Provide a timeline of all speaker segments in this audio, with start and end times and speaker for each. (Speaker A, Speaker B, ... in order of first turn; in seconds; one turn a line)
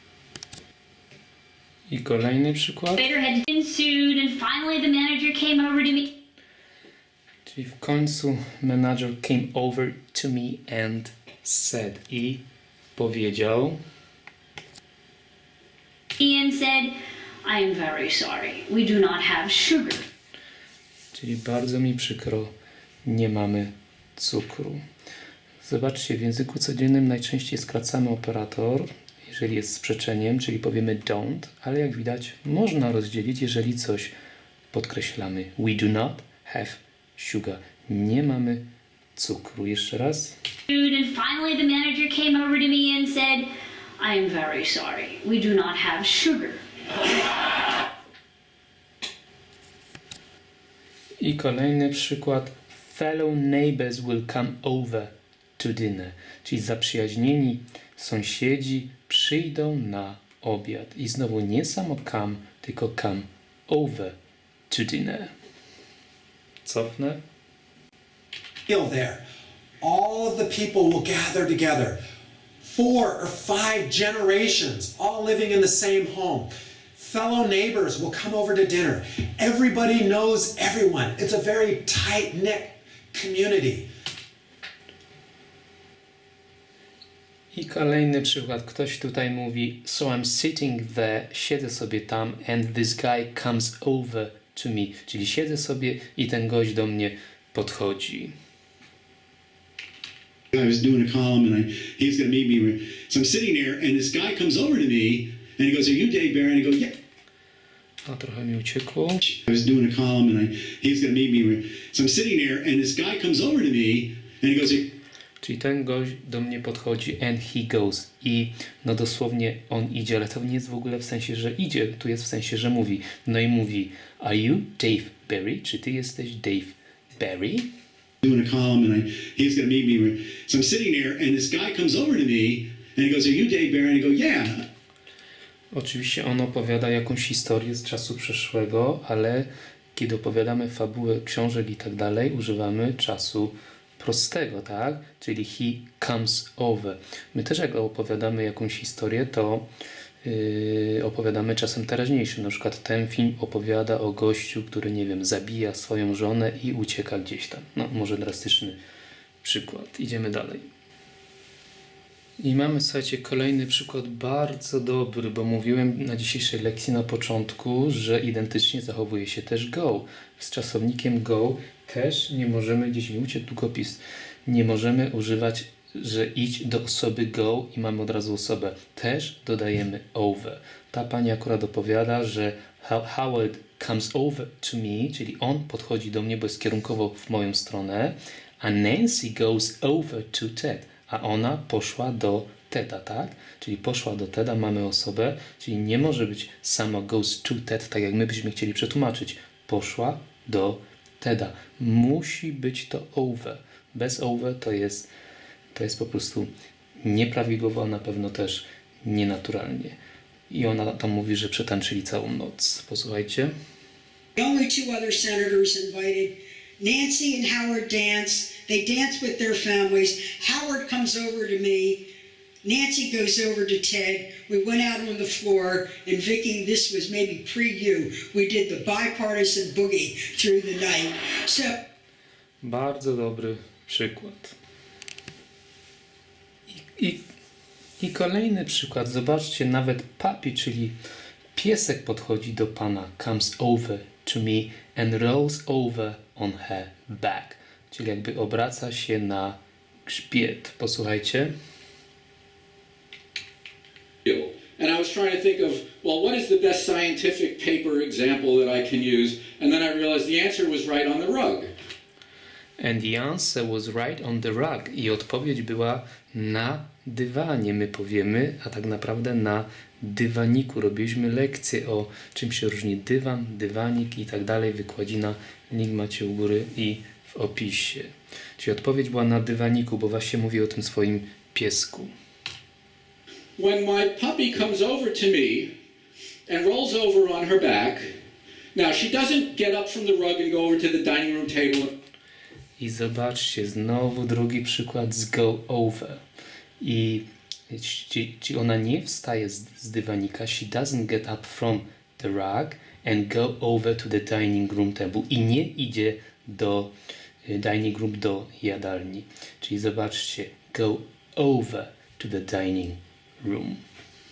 Speaker A: 1.9-3.1
Speaker B: 3.0-6.1
Speaker A: 7.5-12.4
Speaker A: 13.0-13.8
Speaker B: 16.2-16.9
Speaker B: 17.4-20.1
Speaker A: 21.1-22.5
Speaker A: 23.1-24.8
Speaker A: 25.6-34.1
Speaker A: 34.7-38.6
Speaker A: 39.2-40.4
Speaker B: 40.7-43.5
Speaker B: 44.0-46.6
Speaker A: 51.2-64.2
Speaker A: 64.7-65.3
Speaker A: 66.6-67.2
Speaker C: 68.7-69.2
Speaker C: 69.8-72.0
Speaker C: 72.6-83.9
Speaker A: 87.5-98.3
Speaker D: 100.5-106.9
Speaker A: 108.1-109.2
Speaker D: 109.3-114.9
Speaker A: 115.4-127.7
Speaker D: 128.2-134.7
Speaker A: 135.7-149.7
Speaker A: 150.2-158.8
Speaker A: 159.4-160.7
Speaker A: 162.4-205.1
Speaker A: 205.7-206.5
Speaker A: 207.0-209.9
Speaker A: 210.5-213.5
Speaker E: 214.4-222.1
Speaker E: 222.6-231.7
Speaker A: 232.6-234.6
Speaker A: 236.7-237.2
Speaker A: 238.0-240.9
Speaker A: 241.6-251.5
Speaker F: 255.7-256.1
Speaker F: 257.4-257.8
Speaker A: 262.8-282.1
Speaker F: 288.8-289.7
Speaker F: 290.5-291.9
Speaker A: 292.8-296.2
Speaker A: 296.8-306.9
Speaker A: 307.5-313.8